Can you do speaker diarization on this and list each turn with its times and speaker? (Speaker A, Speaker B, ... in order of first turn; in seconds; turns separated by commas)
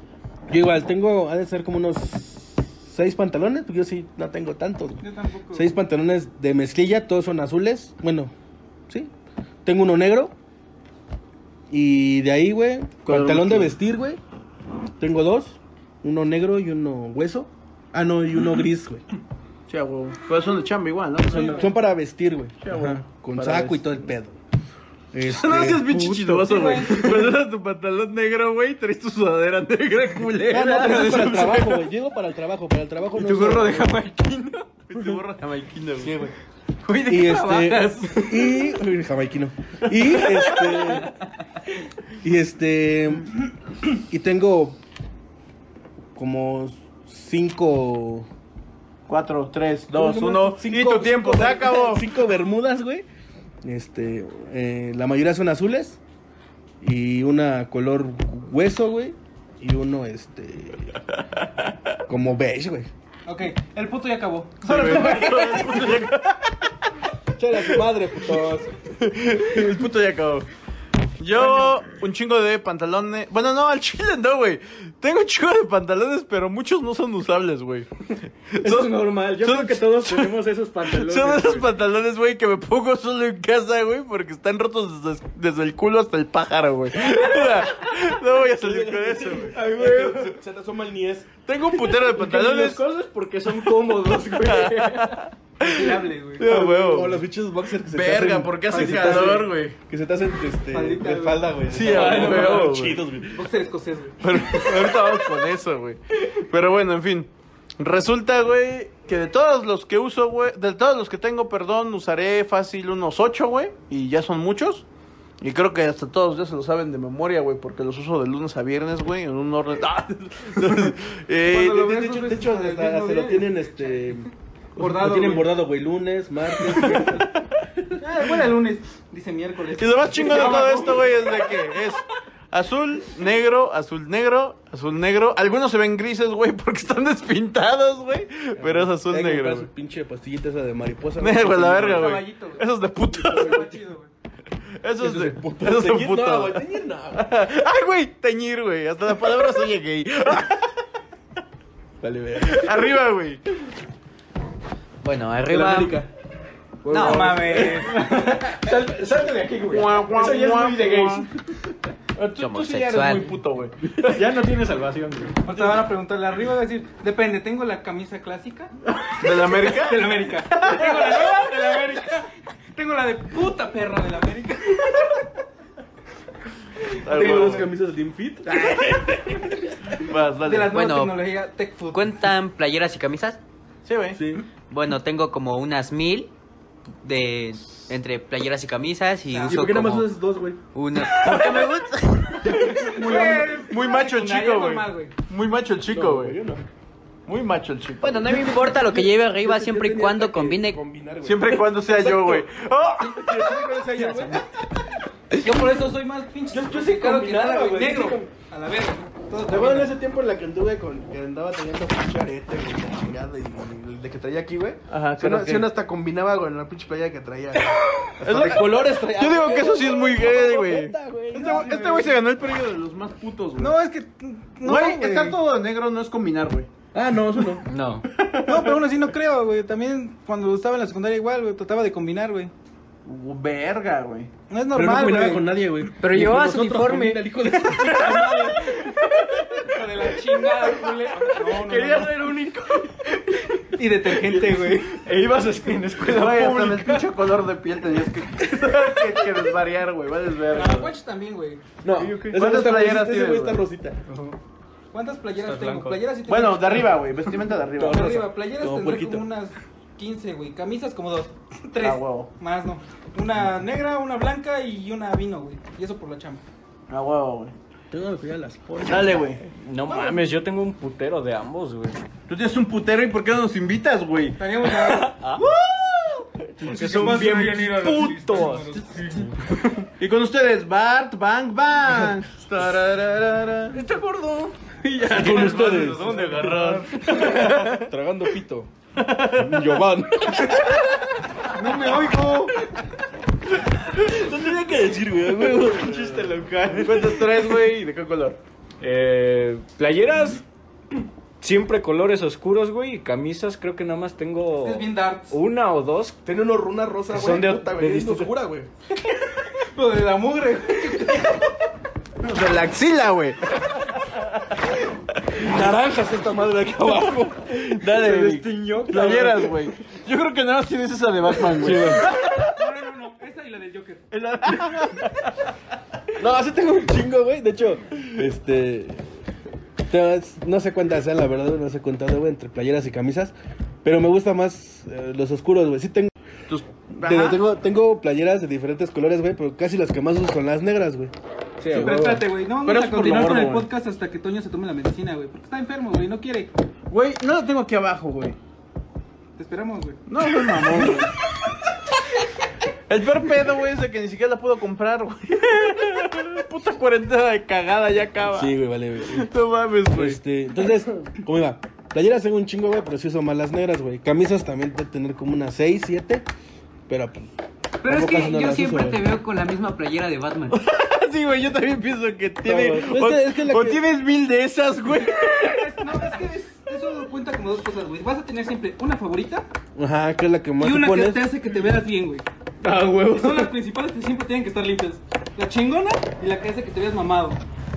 Speaker A: 0.5-8.3, Speaker B: 5.0-5.7, Speaker A: 9.7-10.3, Speaker A: 11.7-14.2, Speaker C: 13.1-13.7, Speaker A: 15.0-19.0, Speaker C: 19.7-21.7, Speaker A: 21.2-24.4, Speaker B: 21.3-21.7, Speaker C: 22.6-24.0, Speaker A: 25.1-26.1, Speaker C: 25.3-31.8, Speaker D: 25.9-26.4, Speaker B: 26.4-27.2, Speaker A: 30.5-34.0, Speaker C: 33.2-34.3, Speaker C: 34.9-36.2, Speaker A: 36.0-36.3, Speaker C: 36.8-38.6, Speaker A: 37.1-41.1, Speaker C: 39.9-41.0, Speaker A: 42.2-43.4, Speaker A: 44.0-44.8, Speaker A: 46.2-48.3, Speaker C: 49.1-52.0, Speaker A: 49.9-53.1, Speaker A: 53.6-56.0, Speaker A: 56.8-61.0, Speaker A: 62.1-62.9, Speaker B: 63.3-65.9, Speaker C: 64.6-66.6, Speaker A: 67.4-68.7, Speaker C: 69.0-70.5, Speaker C: 71.2-77.9, Speaker C: 78.5-80.3, Speaker D: 78.6-81.7, Speaker C: 81.0-90.3, Speaker A: 88.5-91.3, Speaker C: 91.5-92.8, Speaker D: 92.1-95.2, Speaker C: 94.1-97.2, Speaker B: 95.6-96.5, Speaker A: 96.4-103.4, Speaker C: 97.9-99.8, Speaker B: 98.7-99.5, Speaker B: 100.7-101.5, Speaker C: 101.7-103.0, Speaker D: 101.8-103.0, Speaker B: 103.3-104.2, Speaker C: 104.2-114.9, Speaker C: 115.4-121.8, Speaker B: 121.5-124.2, Speaker A: 121.5-128.0, Speaker B: 124.8-125.6, Speaker B: 128.0-131.2, Speaker C: 129.8-139.7, Speaker A: 130.4-130.8, Speaker A: 138.6-142.3, Speaker C: 141.2-143.8, Speaker B: 141.8-144.1, Speaker A: 143.3-143.7, Speaker C: 144.8-150.8, Speaker A: 145.0-147.2, Speaker A: 152.0-152.9, Speaker C: 152.4-153.4, Speaker E: 155.0-156.0, Speaker A: 155.5-156.1, Speaker A: 156.8-158.1, Speaker E: 156.9-157.4, Speaker B: 156.9-158.0, Speaker D: 157.4-161.3, Speaker C: 159.6-161.3, Speaker C: 162.2-164.2, Speaker E: 162.4-163.3, Speaker D: 163.0-163.3, Speaker D: 164.0-165.7, Speaker B: 165.4-168.7, Speaker C: 169.2-171.4, Speaker B: 169.6-175.2, Speaker C: 177.0-177.7, Speaker A: 177.1-178.8, Speaker B: 177.1-177.6, Speaker C: 180.0-180.8, Speaker B: 180.4-182.1, Speaker E: 180.7-181.2, Speaker E: 181.9-183.4, Speaker C: 183.8-184.2, Speaker A: 184.1-184.4, Speaker E: 184.7-186.3, Speaker E: 187.0-190.1, Speaker B: 189.3-189.7, Speaker A: 189.5-190.6, Speaker E: 190.7-192.8, Speaker B: 192.5-195.1, Speaker A: 192.6-193.3, Speaker C: 192.8-196.4, Speaker A: 195.9-196.6, Speaker C: 197.3-198.2, Speaker E: 198.0-200.8, Speaker A: 198.3-202.3, Speaker C: 201.2-203.6, Speaker B: 202.0-202.4, Speaker A: 203.0-204.4, Speaker B: 203.9-204.4, Speaker B: 205.4-209.9, Speaker A: 206.5-208.3, Speaker A: 209.4-221.8, Speaker C: 214.9-215.7, Speaker C: 218.2-223.8, Speaker B: 221.3-222.2, Speaker B: 223.6-225.4, Speaker C: 224.6-226.7, Speaker A: 226.9-227.7, Speaker E: 227.7-228.1, Speaker C: 228.1-228.8, Speaker B: 228.4-232.5, Speaker C: 233.1-234.3, Speaker B: 234.5-235.6, Speaker A: 234.7-238.8, Speaker E: 236.0-237.2, Speaker D: 237.9-238.9, Speaker B: 239.6-242.1, Speaker D: 240.7-243.6, Speaker B: 243.7-244.9, Speaker D: 244.9-247.1, Speaker C: 246.0-250.9, Speaker B: 250.5-251.6, Speaker A: 251.8-254.0, Speaker D: 251.9-252.4, Speaker C: 252.3-253.6, Speaker D: 254.1-254.4, Speaker B: 254.9-257.1, Speaker D: 255.4-256.0, Speaker C: 256.3-258.3, Speaker A: 257.8-259.3, Speaker B: 257.8-266.4, Speaker C: 261.8-262.3, Speaker C: 266.9-267.6, Speaker A: 267.9-269.4, Speaker C: 268.9-269.4, Speaker D: 269.6-272.0, Speaker B: 269.9-270.2, Speaker C: 272.3-274.4, Speaker B: 274.4-275.1, Speaker D: 274.8-275.5, Speaker C: 275.4-276.3, Speaker D: 276.6-279.8, Speaker B: 276.6-279.3, Speaker A: 276.9-277.3, Speaker C: 280.0-283.8, Speaker D: 283.7-287.6, Speaker C: 285.0-287.8, Speaker A: 285.1-288.7, Speaker B: 286.0-286.8, Speaker A: 289.3-290.8, Speaker B: 291.5-292.6, Speaker A: 293.9-297.2, Speaker D: 295.8-296.9, Speaker C: 296.8-298.4, Speaker D: 298.8-300.4, Speaker D: 301.4-306.2, Speaker B: 304.6-305.4, Speaker A: 306.3-308.7, Speaker D: 307.1-308.3, Speaker B: 309.6-311.4, Speaker C: 312.2-313.5, Speaker A: 315.4-317.8, Speaker C: 317.6-322.5, Speaker D: 317.9-319.6, Speaker D: 321.3-322.1, Speaker B: 322.5-324.1, Speaker C: 324.1-325.3, Speaker A: 326.2-329.1, Speaker A: 329.9-336.1, Speaker C: 336.5-337.4, Speaker A: 337.0-341.1, Speaker D: 341.6-342.1, Speaker A: 341.6-342.2, Speaker C: 341.7-343.7, Speaker B: 341.7-346.5, Speaker C: 346.9-348.4, Speaker B: 349.4-350.0, Speaker C: 350.1-351.1, Speaker C: 352.9-358.5, Speaker A: 358.3-359.3, Speaker C: 359.1-360.2, Speaker A: 359.9-366.3, Speaker A: 366.9-369.0, Speaker E: 367.8-370.6, Speaker C: 370.5-375.7, Speaker A: 372.4-373.8, Speaker B: 375.4-379.5, Speaker A: 379.8-381.4, Speaker B: 380.6-382.2, Speaker C: 382.6-383.5, Speaker B: 383.1-387.4